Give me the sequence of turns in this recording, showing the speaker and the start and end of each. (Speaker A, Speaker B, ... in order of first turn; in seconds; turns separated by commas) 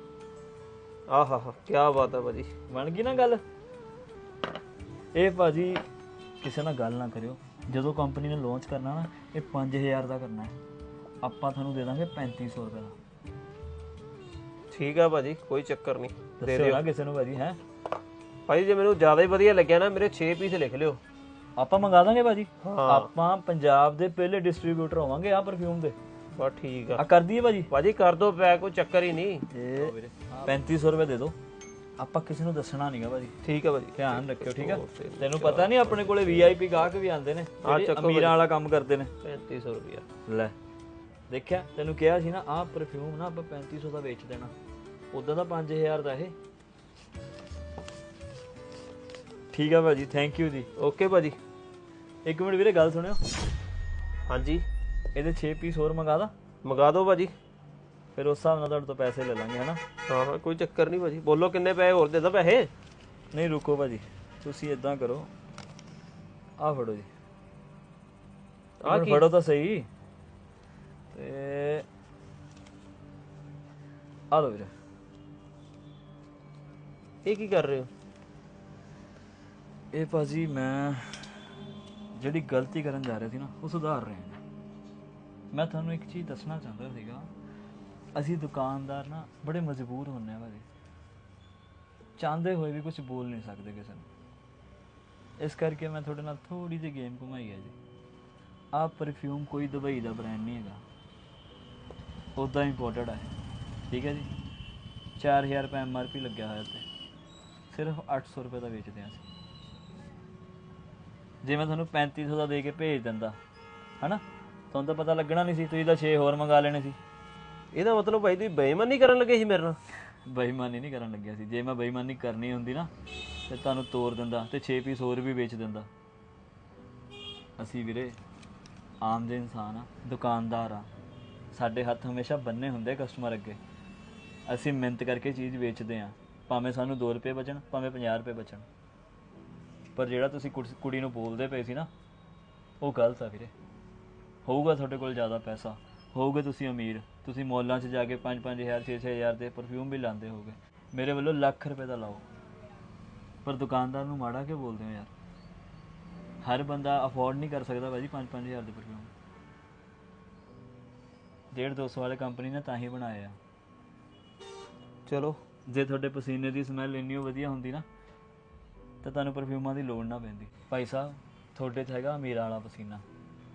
Speaker A: 1.1-2.5, Speaker B: 2.7-3.4, Speaker B: 5.1-5.8, Speaker B: 6.4-10.5, Speaker B: 11.2-12.9, Speaker A: 14.7-16.8, Speaker B: 16.4-17.6, Speaker A: 18.5-21.0, Speaker B: 21.6-25.9, Speaker A: 22.6-23.1, Speaker A: 26.4-27.0, Speaker B: 27.0-27.7, Speaker A: 27.7-29.9, Speaker B: 29.5-31.4, Speaker B: 32.0-33.4, Speaker A: 33.4-36.9, Speaker B: 34.0-39.1, Speaker A: 37.6-38.4, Speaker A: 39.2-40.0, Speaker B: 40.3-40.5, Speaker B: 41.3-44.5, Speaker B: 45.1-46.3, Speaker B: 49.5-50.7, Speaker A: 50.8-51.4, Speaker B: 52.2-53.2, Speaker A: 54.3-54.6, Speaker B: 55.1-56.3, Speaker A: 56.6-57.3, Speaker B: 58.1-59.8, Speaker A: 60.1-62.7, Speaker B: 63.3-65.3, Speaker B: 66.6-67.1, Speaker A: 68.8-69.2, Speaker B: 68.8-69.9, Speaker B: 71.1-71.8, Speaker B: 74.3-74.7, Speaker A: 77.2-77.9, Speaker B: 79.9-81.4, Speaker B: 82.1-84.4, Speaker B: 85.5-87.3, Speaker B: 88.1-90.7, Speaker B: 92.2-94.0, Speaker B: 95.4-97.8, Speaker B: 98.7-100.8, Speaker B: 102.3-103.3, Speaker B: 103.9-104.3, Speaker B: 105.2-106.8, Speaker B: 107.7-109.2, Speaker B: 111.4-113.4, Speaker B: 114.0-117.0, Speaker A: 117.7-119.8, Speaker B: 120.2-122.9, Speaker B: 123.5-125.9, Speaker B: 127.6-128.2, Speaker B: 129.0-130.9, Speaker B: 131.5-133.6, Speaker B: 134.5-138.7, Speaker B: 139.9-141.9, Speaker B: 142.8-143.5, Speaker B: 144.4-152.2, Speaker B: 153.4-155.1, Speaker B: 156.4-159.1, Speaker B: 161.5-163.4, Speaker A: 165.1-165.4, Speaker B: 165.7-167.8, Speaker B: 169.0-173.0